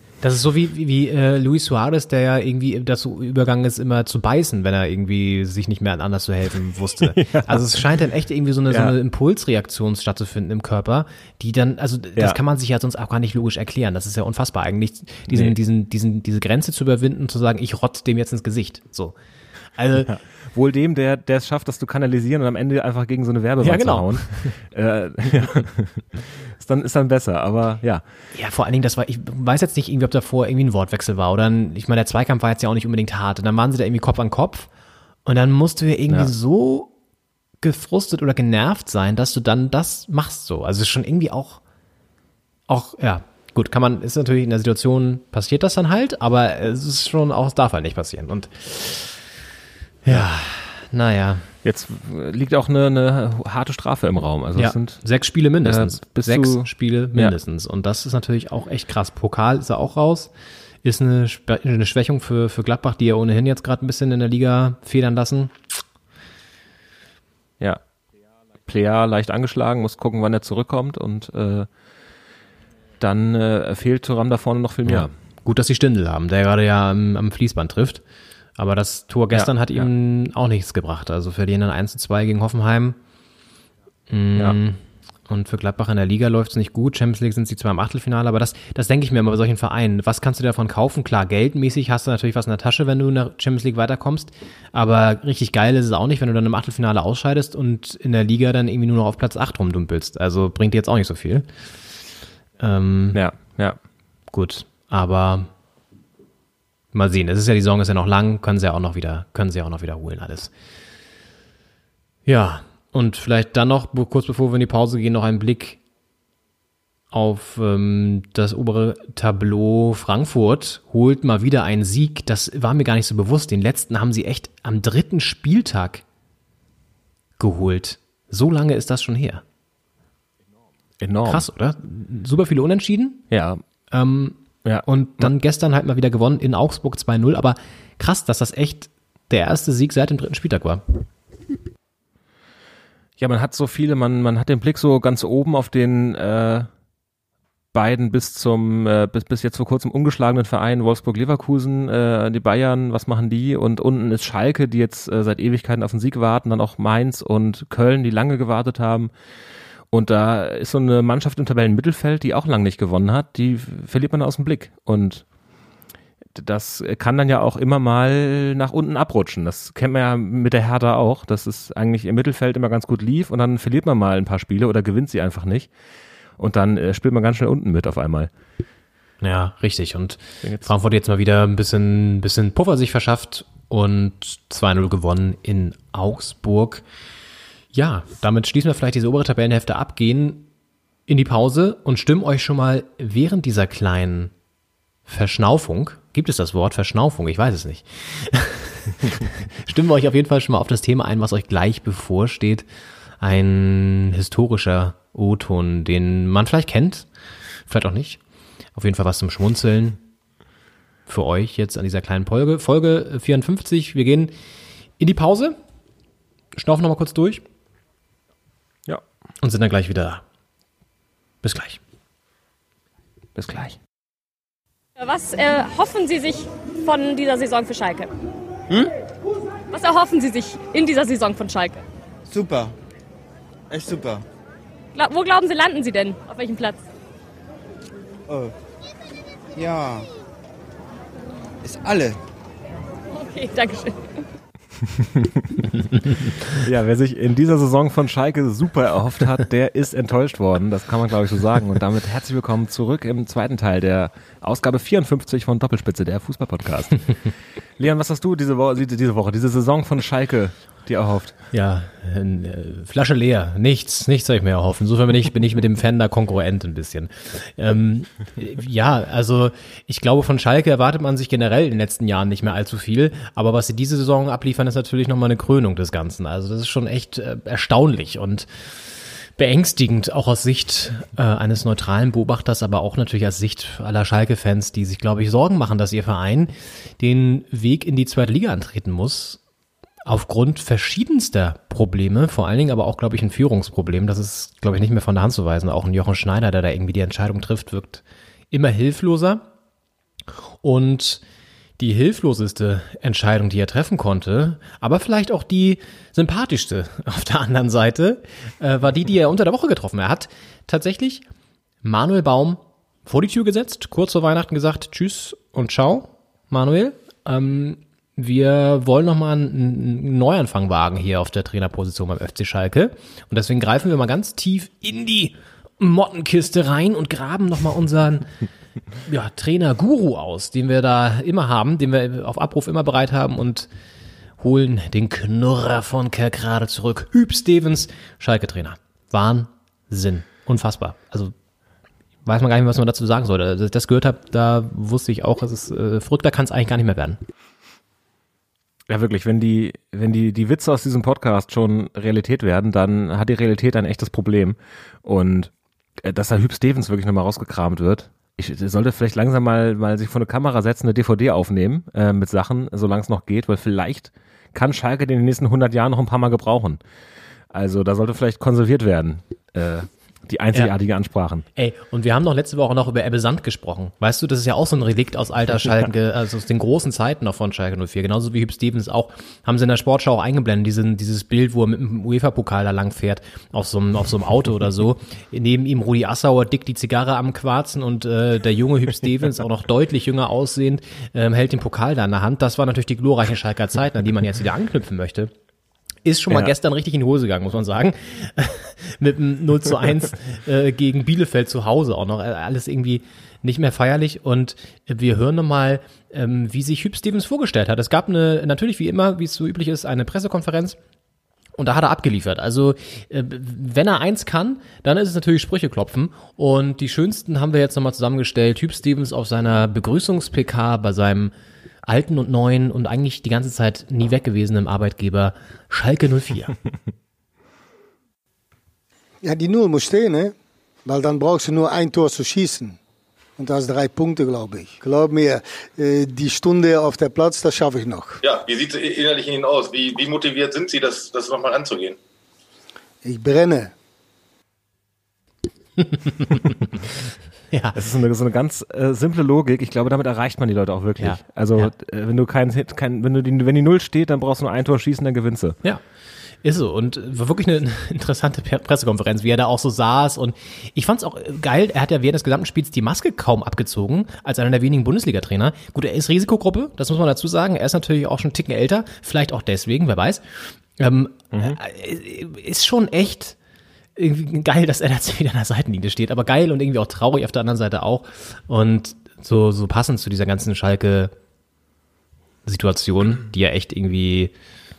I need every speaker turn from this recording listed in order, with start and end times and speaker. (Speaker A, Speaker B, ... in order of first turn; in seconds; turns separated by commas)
Speaker A: 0.2-19.1, Speaker B: 7.1-7.8, Speaker B: 8.7-9.0, Speaker B: 15.3-15.5, Speaker A: 19.8-20.1, Speaker B: 20.0-28.0, Speaker A: 23.6-24.5, Speaker A: 28.3-34.7, Speaker A: 35.3-36.9, Speaker A: 37.6-41.6, Speaker A: 42.7-49.2, Speaker A: 50.0-51.5, Speaker B: 51.6-55.0, Speaker A: 54.6-60.3, Speaker B: 55.6-57.4, Speaker A: 60.8-65.5, Speaker B: 68.7-71.7, Speaker B: 73.0-75.1, Speaker A: 74.9-78.0, Speaker A: 78.6-83.0, Speaker B: 79.3-79.9, Speaker A: 84.1-101.5, Speaker A: 102.6-103.2, Speaker B: 103.1-103.8, Speaker A: 104.3-105.5, Speaker A: 106.9-110.5, Speaker A: 112.3-115.8, Speaker A: 117.1-126.0, Speaker A: 127.4-129.4, Speaker B: 131.0-131.4, Speaker A: 131.3-133.2, Speaker B: 133.3-133.6, Speaker A: 133.9-140.8, Speaker B: 134.7-135.3, Speaker B: 143.2-146.7, Speaker B: 147.7-159.1, Speaker B: 159.9-165.2, Speaker B: 166.4-175.7, Speaker B: 176.4-178.3, Speaker A: 179.2-186.8, Speaker A: 187.7-190.5, Speaker A: 191.1-194.3, Speaker A: 195.1-202.7, Speaker A: 203.2-207.1, Speaker A: 207.7-208.2, Speaker A: 208.8-210.0, Speaker A: 211.1-214.3, Speaker A: 215.0-215.6, Speaker A: 216.6-217.4, Speaker A: 219.4-220.2, Speaker A: 221.4-221.8, Speaker B: 223.4-223.8, Speaker C: 225.0-228.1, Speaker C: 229.7-231.8, Speaker D: 232.3-232.8, Speaker D: 233.7-234.2, Speaker C: 234.9-236.8, Speaker D: 238.3-238.5, Speaker D: 239.6-240.1, Speaker D: 241.6-242.2, Speaker C: 243.2-244.0, Speaker B: 244.9-245.7, Speaker B: 246.5-257.3, Speaker B: 257.8-261.4, Speaker A: 261.5-278.5, Speaker A: 279.4-289.4, Speaker A: 290.1-299.4, Speaker A: 300.6-301.2, Speaker A: 301.8-311.2, Speaker A: 311.8-328.3, Speaker A: 329.1-333.7, Speaker A: 334.4-341.3, Speaker A: 342.3-347.2, Speaker B: 348.9-366.8, Speaker B: 367.5-371.5, Speaker A: 371.6-395.3, Speaker A: 396.1-410.8, Speaker A: 411.6-421.3, Speaker A: 421.9-426.5, Speaker E: 429.2-432.8, Speaker E: 433.4-438.2, Speaker F: 438.2-442.0, Speaker E: 443.0-443.7, Speaker A: 445.8-446.6, Speaker A: 447.5-447.8, Speaker B: 447.8-455.6, Speaker A: 451.0-451.7, Speaker A: 456.4-470.2, Speaker A: 470.8-473.4, Speaker B: 471.3-471.6, Speaker A: 474.0-481.1, Speaker A: 482.5-484.3